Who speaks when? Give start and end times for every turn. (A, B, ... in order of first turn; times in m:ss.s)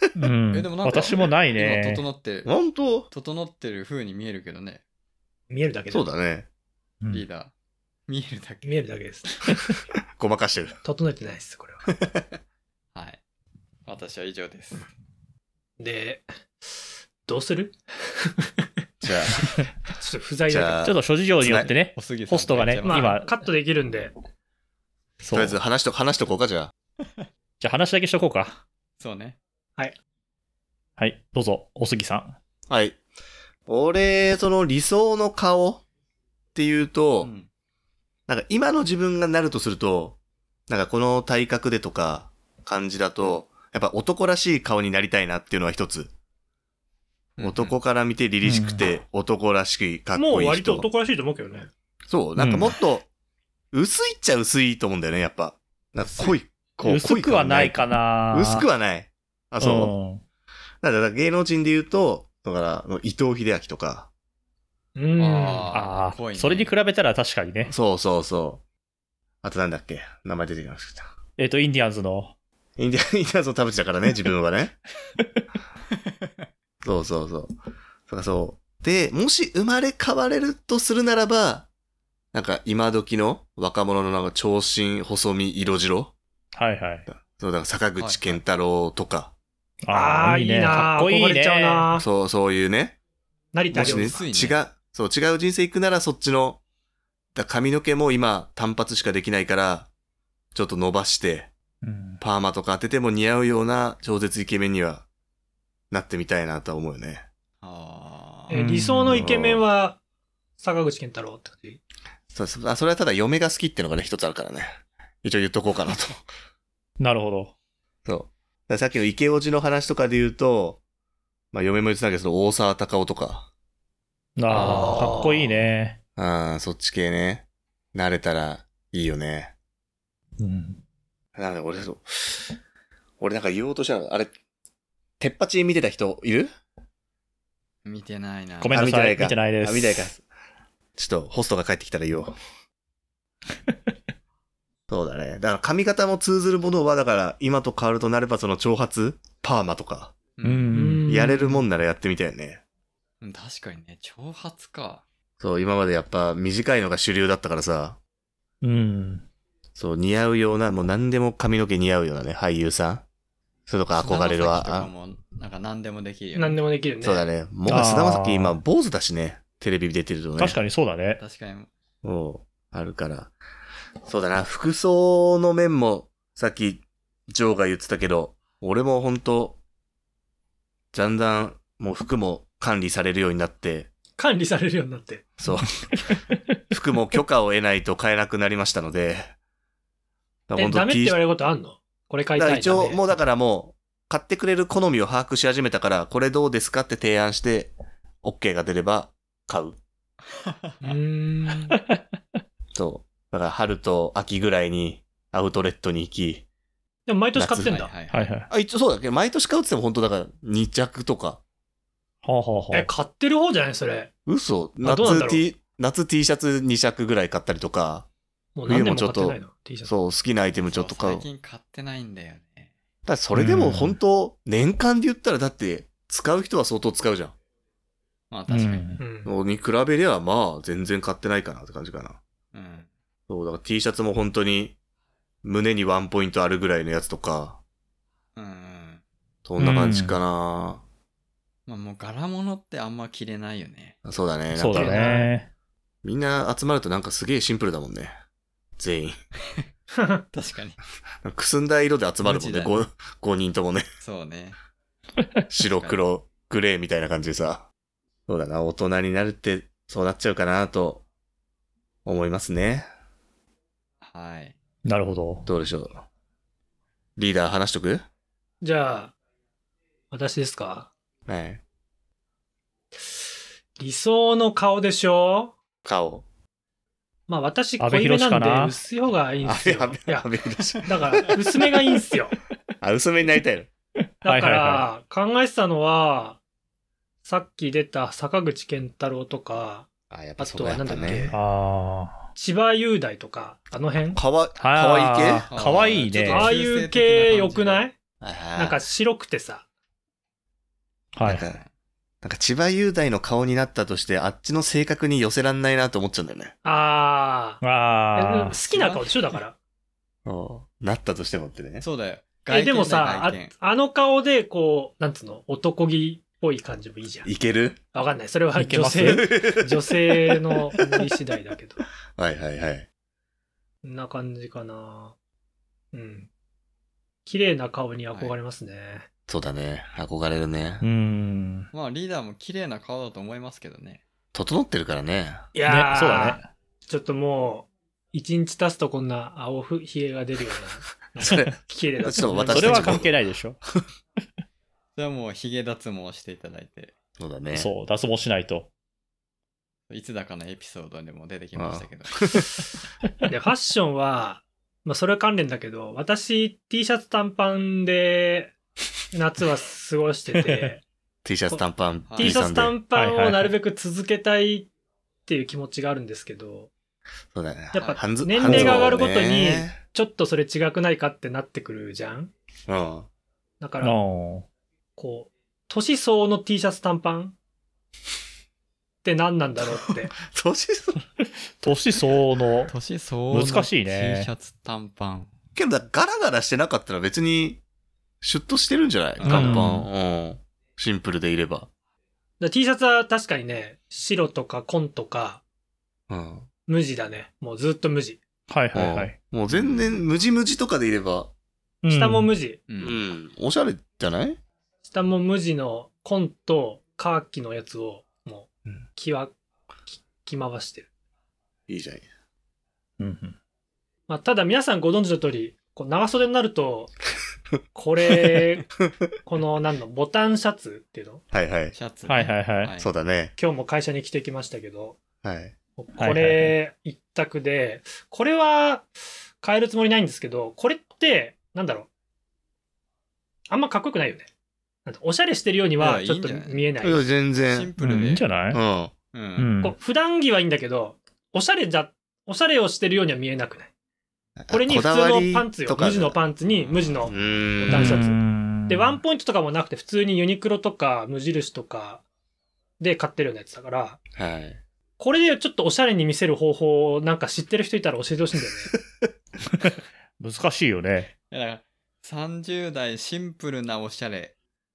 0:00.2-0:02.0 A
0:00.5-0:02.5 B
0:02.5-0:03.1 C
0:03.1-0:04.8 B
0:05.5-0:06.1 D
0:05.9-0:06.5 C
0:07.1-0:07.5 B
0:08.1-0:08.8 B
0:08.6-0:09.7 D
0:10.2-0:10.8 C
0:10.8-0:11.8 D
0:13.0-0:13.2 B
0:13.9-0:14.9 B
0:15.8-0:18.4 D
0:19.0-0:19.4 C
0:20.0-0:20.9 D
0:20.5-0:21.7 C
0:20.8-0:23.4 A
0:21.8-0:23.1 B
0:22.9-0:24.1 D
0:25.2-0:25.6 A
0:25.3-0:26.7 C
0:27.6-0:28.6 A
0:29.0-0:29.4 B
0:31.0-0:32.4 A
0:32.7-0:33.0 C
0:33.7-0:35.8 C
0:36.6-0:37.3 C
0:37.2-0:37.5 B
0:38.3-0:40.2 C
0:40.7-0:46.1 C
0:47.4-0:47.8 B
0:47.4-0:50.9 C
0:48.4-0:48.8 A
0:50.2-0:51.7 D
0:52.1-0:53.1 C
0:52.4-0:52.8 A
0:53.7-0:59.9 C
0:56.8-0:58.7 A
0:59.6-1:00.2 A
1:00.8-1:04.1 C
1:05.0-1:05.8 D
1:05.2-1:06.7 B
1:05.7-1:07.7 A
1:07.7-1:08.6 C
1:09.4-1:11.1 C
1:11.4-1:12.3 A
1:12.8-1:14.8 C
1:16.8-1:17.5 C
1:18.1-1:21.7 C
1:22.3-1:26.1 C
1:26.5-1:27.1 A
1:27.1-1:29.3 C
1:28.0-1:28.4 B
1:29.8-1:31.9 A
1:29.9-1:32.0 D
1:32.0-1:33.0 C
1:33.5-1:34.3 D
1:33.7-1:36.6 C
1:33.7-1:34.6 B
1:37.4-1:39.9 C
1:40.5-1:41.5 C
1:41.8-1:42.2 A
1:42.2-1:45.1 C
1:45.9-1:47.2 C
1:47.6-1:48.5 B
1:48.5-1:50.0 D
1:48.5-1:49.2 A
1:49.1-1:49.6 C
1:50.6-1:51.8 D
1:52.3-1:56.2 C
1:57.0-1:57.5 A
1:58.0-2:00.8 C
2:01.5-2:03.5 C
2:04.4-2:06.0 A
2:04.5-2:05.3 D
2:04.5-2:05.4 B
2:06.2-2:09.5 C
2:10.4-2:10.8 A
2:11.4-2:12.5 C
2:13.2-2:14.3 C
2:15.2-2:16.5 C
2:17.8-2:18.9 B
2:18.6-2:20.1 A
2:18.7-2:20.2 C
2:21.0-2:22.4 C
2:24.9-2:30.2 C
2:30.4-2:30.7 B
2:30.4-2:31.1 A
2:30.7-2:31.6 D
2:31.1-2:32.6 C
2:33.2-2:35.0 B
2:35.4-2:38.0 C
2:38.6-2:39.2 A
2:39.8-2:43.0 C
2:43.7-2:44.9 C
2:44.0-2:46.6 B
2:46.4-2:47.3 D
2:47.0-2:50.6 C
2:47.7-2:48.6 A
2:50.4-2:51.2 A
2:51.2-2:51.7 B
2:52.0-2:53.3 C
2:54.0-2:59.6 C
3:00.9-3:03.9 C
3:04.2-3:05.3 D
3:05.4-3:05.9 C
3:06.7-3:09.3 C
3:10.5-3:11.2 C
3:10.6-3:13.0 D
3:12.4-3:17.7 C
3:18.2-3:19.8 C
3:20.5-3:20.7 B
3:20.8-3:21.8 D
3:21.7-3:22.0 A
3:22.7-3:26.4 C
3:27.1-3:27.9 D
3:27.4-3:27.8 C
3:27.7-3:28.3 B
3:28.1-3:28.5 A
3:28.5-3:31.4 C
3:32.2-3:32.9 A
3:32.7-3:34.1 D
3:34.3-3:38.1 C
3:34.8-3:35.4 D
3:38.6-3:39.9 D
3:38.7-3:41.3 C
3:40.6-3:42.7 B
3:43.1-3:47.4 C
3:43.4-3:44.0 A
3:48.3-3:49.0 B
3:48.5-3:49.0 A
3:49.0-3:49.3 D
3:49.2-3:52.2 C
3:52.5-3:52.9 B
3:53.3-3:54.8 C
3:55.4-3:57.6 C
3:58.4-3:59.0 B
3:59.5-4:00.8 C
3:59.6-4:00.2 A
4:01.7-4:04.0 B
4:04.0-4:05.0 C
4:04.5-4:05.5 A
4:04.7-4:05.3 D
4:06.0-4:08.1 C
4:08.8-4:09.2 C
4:10.3-4:10.8 B
4:11.2-4:13.8 C
4:12.2-4:12.9 B
4:14.0-4:14.6 B
4:15.5-4:17.7 C
4:15.6-4:16.0 B
4:18.3-4:21.0 C
4:22.0-4:22.9 C
4:24.0-4:24.6 B
4:24.8-4:25.5 A
4:25.5-4:26.0 C
4:27.2-4:28.0 C
4:28.6-4:29.2 D
4:30.1-4:30.9 D
4:31.3-4:31.6 C
4:33.8-4:35.6 D
4:35.8-4:36.2 C
4:37.3-4:40.3 D
4:37.8-4:38.8 A
4:39.4-4:41.4 C
4:40.8-4:42.4 D
4:42.8-4:43.7 C
4:44.2-4:44.9 A
4:44.2-4:46.4 D
4:47.2-4:51.4 D
4:50.1-4:51.3 C
4:51.3-4:52.2 A
4:52.4-4:54.2 D
4:54.2-4:55.5 C
4:54.6-4:56.5 A
4:55.5-4:57.9 B
4:56.2-4:58.0 D
4:58.2-4:58.8 C
4:58.6-4:59.6 D
5:01.2-5:01.5 A
5:01.2-5:01.6 C
5:02.2-5:06.5 C
5:06.6-5:07.6 D
5:07.6-5:08.6 A
5:08.2-5:09.6 D
5:08.7-5:09.0 B
5:10.3-5:11.8 C
5:11.8-5:13.5 B
5:12.5-5:17.3 D
5:17.2-5:17.8 C
5:17.9-5:21.8 D
5:18.6-5:19.3 A
5:19.0-5:19.9 C
5:22.2-5:22.9 C
5:23.8-5:25.2 D
5:25.9-5:26.3 D
5:27.2-5:29.1 D
5:29.3-5:30.8 C
5:30.8-5:31.7 A
5:31.7-5:34.0 B
5:34.3-5:35.4 C
5:35.5-5:43.0 D
5:35.6-5:36.5 A
5:41.2-5:43.2 C
5:42.5-5:43.6 A
5:45.0-5:47.0 B
5:47.2-5:47.7 C
5:47.5-5:48.7 A
5:49.9-5:52.2 B
5:51.6-5:52.5 C
5:53.3-5:58.5 D
5:59.1-6:00.8 D
6:00.4-6:00.7 A
6:01.2-6:02.8 C
6:02.1-6:02.4 B
6:02.2-6:04.7 D
6:02.9-6:03.5 A
6:05.3-6:06.7 D
6:07.3-6:09.8 C
6:07.7-6:12.3 D
6:08.5-6:08.8 A
6:12.7-6:13.1 C
6:13.6-6:14.0 D
6:13.8-6:14.5 A
6:15.0-6:17.4 D
6:19.0-6:20.1 D
6:20.2-6:21.0 C
6:21.6-6:22.7 A
6:22.7-6:25.3 B
6:23.3-6:24.3 A
6:25.6-6:27.6 C
6:28.2-6:31.7 C
6:29.2-6:29.7 B
6:29.3-6:29.9 A
6:32.4-6:35.4 D
6:36.1-6:36.5 C
6:36.7-6:38.2 D
6:38.5-6:39.2 A
6:38.7-6:41.3 C
6:39.5-6:39.8 B
6:41.8-6:42.3 A
6:41.9-6:42.6 D
6:42.7-6:43.0 B
6:42.8-6:44.4 C
6:44.8-6:49.3 D
6:49.9-6:50.9 D
6:51.7-6:52.1 C
6:53.0-6:53.4 A
6:54.1-6:56.9 D
6:57.7-6:58.7 D
6:59.3-7:01.2 D
7:01.3-7:01.8 C
7:01.7-7:02.9 B
7:02.1-7:02.7 A
7:02.8-7:03.3 C
7:03.4-7:05.0 D
7:05.2-7:05.5 C
7:05.8-7:08.9 D
7:06.0-7:06.6 A
7:09.4-7:11.9 D
7:13.5-7:14.3 D
7:14.9-7:17.0 D
7:15.8-7:16.6 B
7:16.8-7:17.7 C
7:17.5-7:18.2 B
7:17.8-7:18.6 A
7:18.5-7:18.9 C
7:19.1-7:19.5 B
7:19.4-7:19.8 A
7:19.6-7:23.7 D
7:24.4-7:26.2 C
7:24.5-7:32.0 D
7:26.6-7:27.3 B
7:27.0-7:28.0 C
7:27.7-7:29.0 A
7:32.8-7:34.0 D
7:34.2-7:34.6 C
7:35.0-7:38.7 D
7:40.2-7:41.1 A
7:41.3-7:44.4 B